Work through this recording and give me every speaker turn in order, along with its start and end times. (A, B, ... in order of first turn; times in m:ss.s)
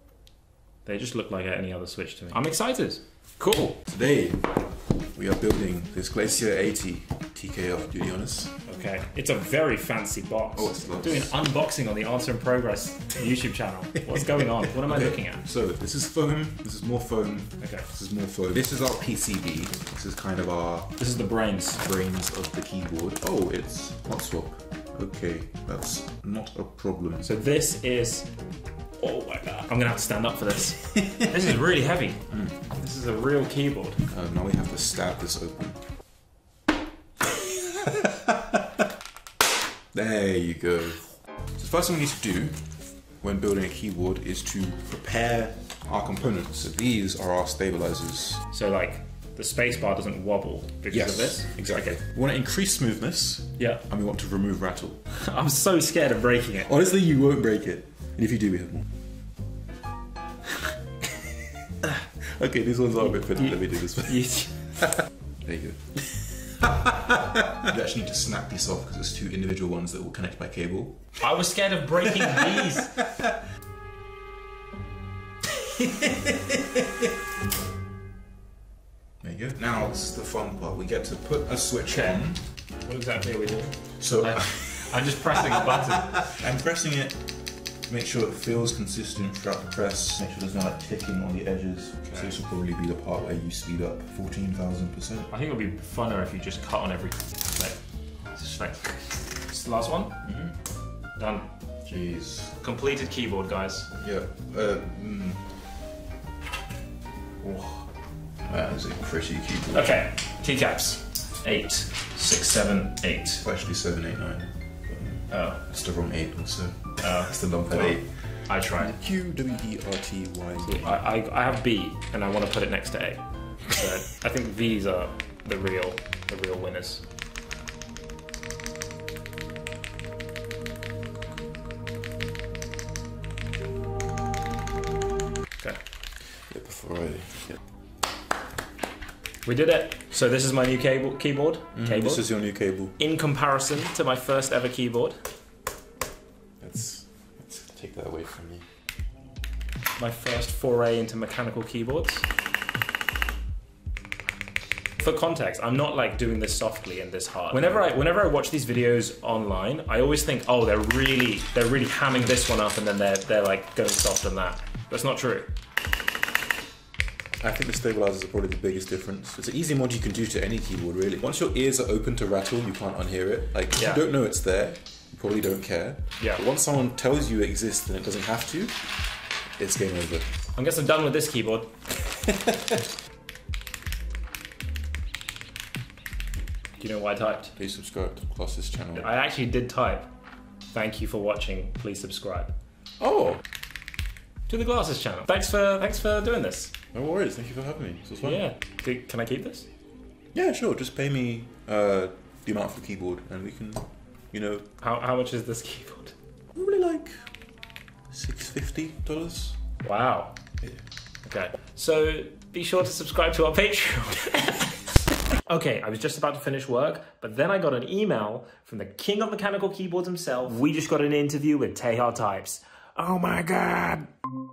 0:00.9-0:03.8 A
0:03.8-0:08.6 B
0:08.7-0:15.4 A
0:10.6-0:11.3 B
0:14.0-0:21.0 B
0:17.6-0:17.9 A
0:21.0-0:21.8 A
0:21.7-0:27.3 B
0:27.2-0:28.3 A
0:29.0-0:34.0 A
0:32.3-0:32.6 B
0:34.1-0:35.8 B
0:37.8-0:38.8 B
0:39.9-0:42.7 B
0:43.2-0:48.4 B
0:48.5-0:52.0 A
0:50.9-0:55.0 B
0:55.2-0:56.7 A
0:56.7-0:58.9 B
1:02.2-1:04.3 B
1:03.4-1:04.6 A
1:05.4-1:11.2 B
1:11.2-1:12.9 A
1:12.4-1:13.1 B
1:15.8-1:17.1 B
1:19.2-1:22.4 B
1:21.9-1:22.2 A
1:22.8-1:26.4 A
1:24.0-1:27.2 B
1:27.9-1:35.3 B
1:32.1-1:32.3 A
1:35.3-1:37.8 A
1:38.4-1:40.2 A
1:40.2-1:40.6 B
1:41.2-1:41.5 A
1:41.8-1:42.6 B
1:42.6-1:43.9 A
1:44.0-1:45.5 B
1:47.4-1:47.9 B
1:48.4-1:50.0 B
1:49.7-1:53.4 A
1:53.4-1:58.1 B
1:55.3-1:55.6 A
1:57.0-1:58.9 A
1:58.8-2:01.0 B
2:00.6-2:07.0 A
2:16.4-2:17.6 B
2:19.4-2:22.3 A
2:21.7-2:23.0 B
2:23.0-2:25.2 A
2:26.6-2:28.6 B
2:30.0-2:32.3 A
2:35.0-2:45.5 A
2:47.4-2:58.8 B
2:53.8-2:54.0 A
2:59.6-3:00.3 B
3:00.6-3:01.7 A
3:06.8-3:07.5 A
3:07.6-3:09.1 B
3:09.0-3:10.1 A
3:10.7-3:12.5 A
3:13.0-3:13.4 B
3:14.5-3:16.7 A
3:16.9-3:18.4 B
3:18.2-3:19.7 A
3:20.3-3:24.7 B
3:24.8-3:26.2 A
3:26.6-3:27.2 B
3:28.1-3:29.6 B
3:29.8-3:30.4 A
3:31.2-3:34.9 A
3:35.5-3:44.1 A